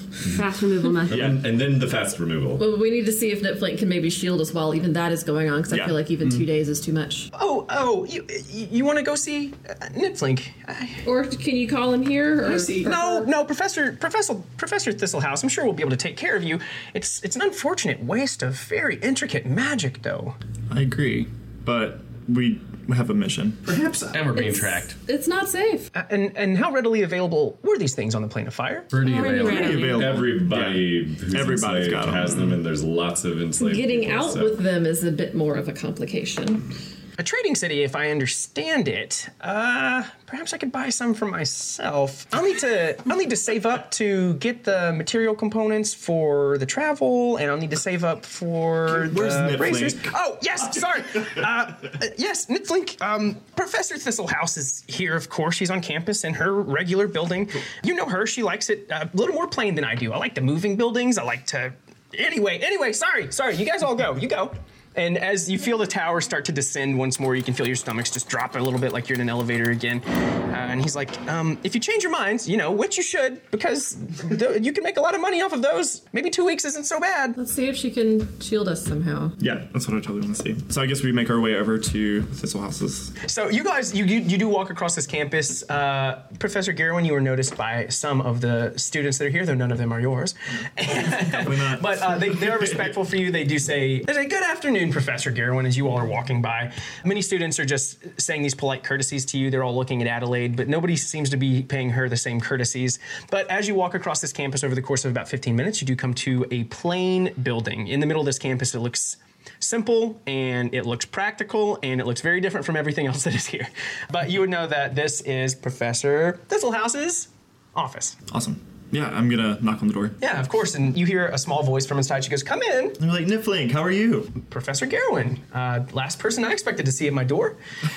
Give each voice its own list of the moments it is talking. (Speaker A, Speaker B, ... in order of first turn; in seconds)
Speaker A: 0.3-1.3, 29.0-30.1
Speaker B: 1.1-1.5, 5.7-6.0, 20.7-23.7, 29.4-32.6, 48.9-50.1, 79.4-83.1, 90.9-92.9, 118.3-120.2, 123.0-124.3
Speaker C: 1.1-2.6, 29.9-34.6
Speaker D: 2.6-7.3, 11.0-13.3, 24.3-25.9, 33.6-36.6, 77.3-79.3
Speaker E: 7.3-11.0, 12.4-20.4, 23.6-24.2, 25.9-28.9, 37.2-77.4, 83.2-118.2, 120.2-123.0, 124.5-127.6
Speaker F: 24.1-24.9, 28.9-30.2